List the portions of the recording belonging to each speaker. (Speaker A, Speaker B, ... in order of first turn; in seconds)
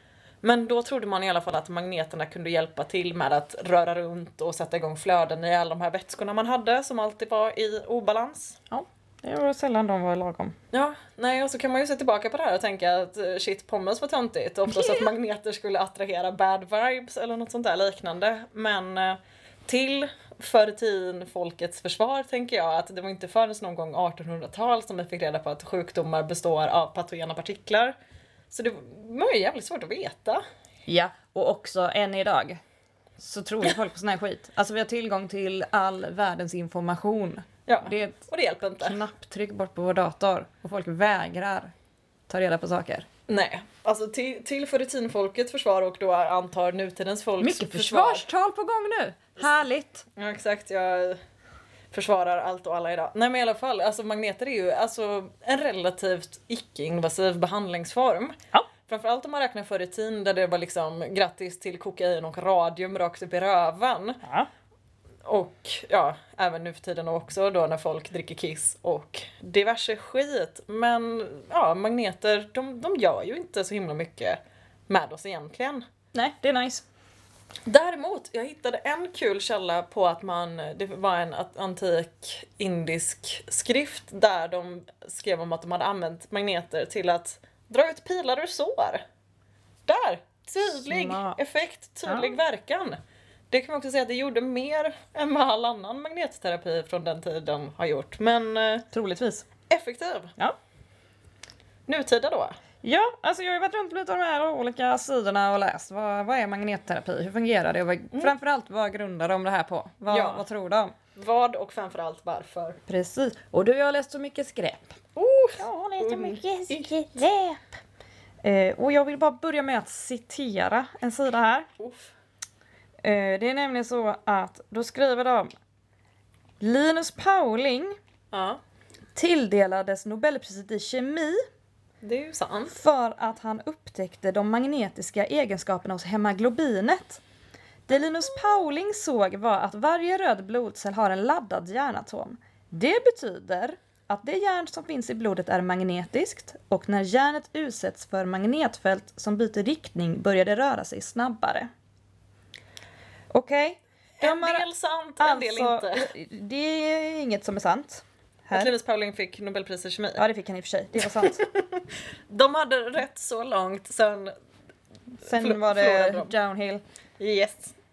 Speaker A: 0.4-8.6, 10.7-27.9, 28.5-30.4, 37.7-39.0, 43.3-48.2, 50.1-51.2, 51.9-58.4, 58.9-64.2, 65.2-75.8, 77.7-89.0, 89.8-98.8, 99.7-100.3, 101.9-102.5, 110.1-110.4, 111.1-112.8, 115.2-116.9, 121.8-122.1, 128.3-128.6, 132.0-132.8, 154.2-156.1, 158.5-160.2, 161.1-164.3, 165.3-166.3, 167.2-167.7
Speaker B: 8.7-10.6, 30.9-32.6, 33.2-38.2, 38.8-41.7, 42.3-43.1, 47.4-50.0, 64.2-64.5, 76.1-76.8, 90.7-91.4, 92.1-92.3, 98.9-99.5, 102.8-110.9, 112.9-115.0, 115.6-117.7, 118.4-121.7, 123.0-125.5, 126.6-128.0, 129.2-131.4, 132.7-137.2, 137.9-151.7, 153.3-154.7, 155.2-158.7, 160.2-161.4, 165.2-166.8